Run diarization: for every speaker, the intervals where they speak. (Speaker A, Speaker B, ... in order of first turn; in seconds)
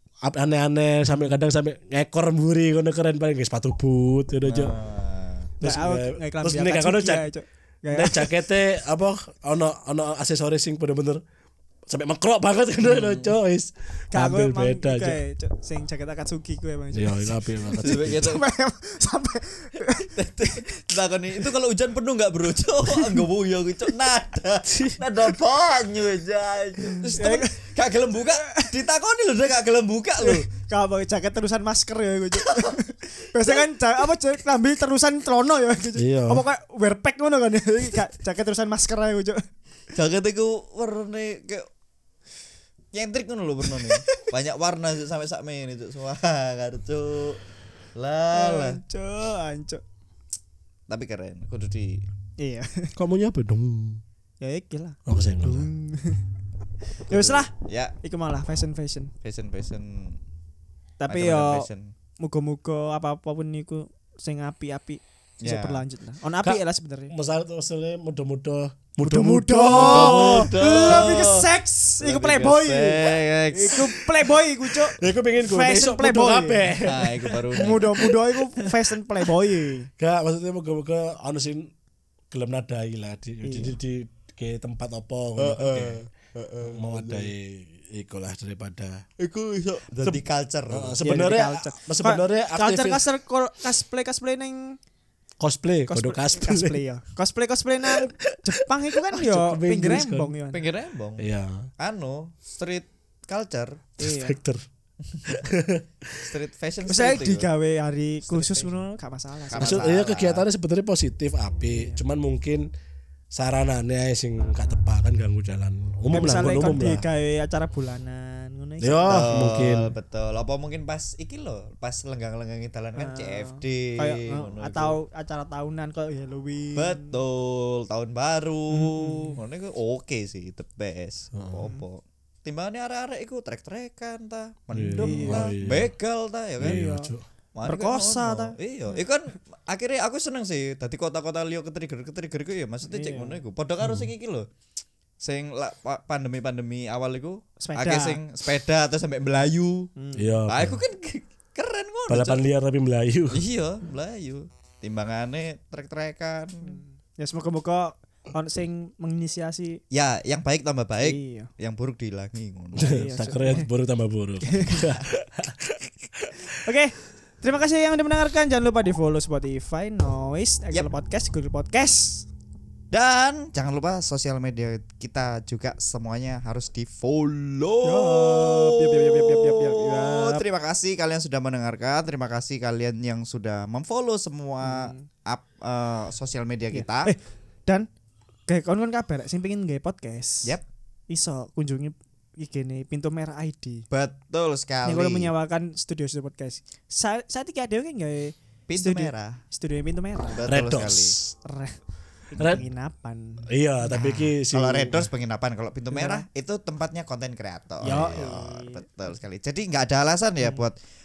Speaker A: 0.2-4.7, 5.6-7.3, 7.9-11.2, 11.9-15.2, 16.9-18.3, 36.0-36.5, 53.0-54.0, 55.1-55.7, 66.4-70.5, 75.0-79.3, 80.0-81.7, 82.3-86.1, 86.6-89.0, 90.7-93.0, 95.4-96.8, 98.9-100.3, 101.2-101.7, 104.0-104.6, 105.3-105.9, 109.6-112.7, 113.3-117.0, 118.8-119.9, 131.4-131.6, 134.7-135.9, 136.6-137.2, 143.8-144.1, 150.2-150.8, 152.1-153.4, 162.8-165.7, 200.5-201.3, 203.5-205.1, 207.8-208.3
Speaker B: 4.4-5.5, 12.8-13.3, 17.8-18.4, 19.9-30.5, 32.4-32.8, 39.9-41.7, 42.9-47.4, 48.0-48.8, 50.9-52.0, 57.1-58.0, 59.2-60.2, 61.1-61.9, 65.4-65.8, 69.7-71.5, 72.0-74.1, 76.8-78.0, 85.4-87.3, 89.2-91.0, 100.5-101.3, 101.8-103.8, 105.1-105.4, 106.1-107.5, 108.3-108.8, 109.5-110.5, 119.1-125.0, 126.8-144.5, 145.2-149.9, 150.5-152.4, 153.3-156.7, 159.9-163.1, 172.9-187.1, 193.9-195.3, 198.7-199.4, 200.3-201.2, 203.9-210.8
Speaker C: 5.6-8.4, 14.1-20.6, 22.9-23.2, 26.9-27.6, 28.3-28.7, 30.2-39.4, 43.6-44.2, 48.3-49.8, 52.4-52.9, 54.4-56.2, 57.1-57.5, 58.0-59.1, 61.0-61.7, 62.2-67.1, 69.0-76.8, 77.5-79.9, 83.4-83.7, 91.0-94.8, 95.9-100.7, 104.0-104.4, 106.9-109.9, 111.7-112.0, 116.1-119.4, 123.0-127.2, 128.7-129.4, 135.0-135.6, 137.7-138.6, 142.9-143.4, 147.6-148.2, 150.0-150.4, 156.6-159.8, 161.0-161.5, 162.8-163.7, 164.4-164.9, 166.5-172.3, 177.8-180.4, 184.6-185.1, 186.7-187.9, 188.5-190.5, 191.1-193.8, 194.8-200.5, 201.4-201.8, 202.3-203.5, 205.9-206.2, 207.8-208.8